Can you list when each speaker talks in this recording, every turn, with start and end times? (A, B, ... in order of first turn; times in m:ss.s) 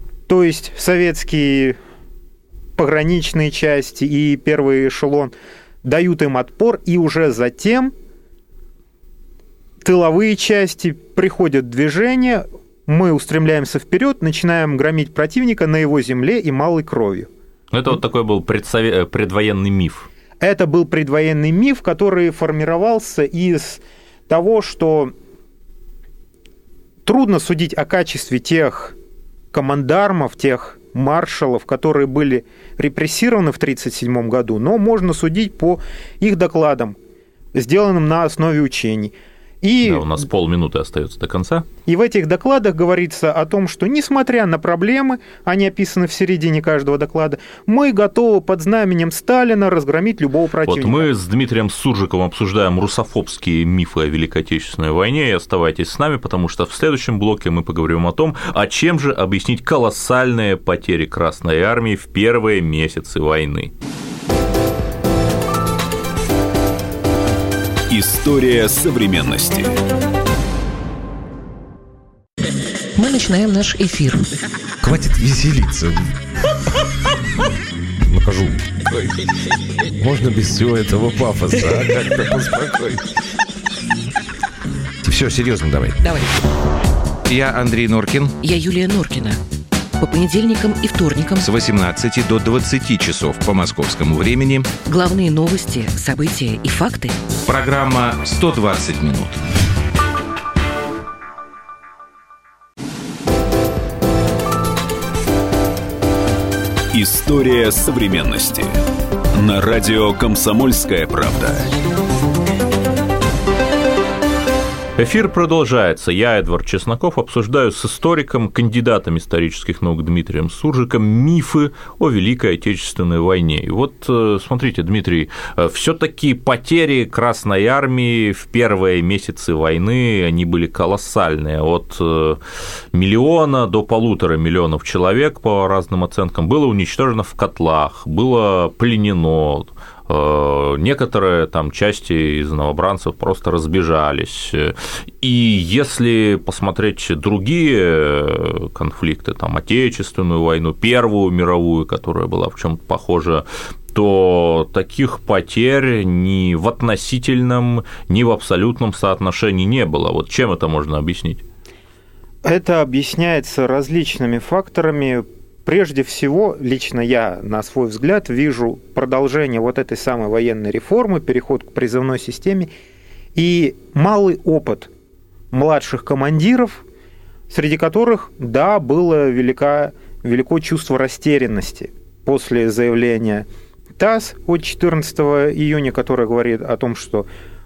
0:00.3-0:01.8 A
0:02.8-0:05.3 A
0:05.8-0:07.9 A
0:09.8-0:17.3 A
0:17.7-0:20.1 B
0:20.4-0:25.1 A
0:27.1-0:29.0 A
0:29.5-0:37.0 A
0:37.6-0:40.2 A
0:39.8-0:41.7 B
0:41.9-0:51.1 A
0:50.7-1:03.7 B
1:07.9-1:09.7 C
1:13.0-1:14.3 D
1:14.8-1:16.1 E
1:18.1-1:19.1 E
1:20.0-1:23.0 E
1:25.0-1:26.1 E
1:27.3-1:28.4 E
1:28.4-1:29.4 D
1:30.0-1:31.5 D
1:31.4-1:34.8 E
1:34.8-1:37.2 D
1:37.4-1:39.4 E
1:46.9-1:48.7 C
1:49.3-1:51.7 C
1:55.0-2:12.4 B
2:12.9-2:41.4 B
2:42.4-2:52.7 A
2:53.4-2:54.9 A
2:55.5-2:56.8 A
2:57.5-3:03.5 A
3:04.0-3:07.3 A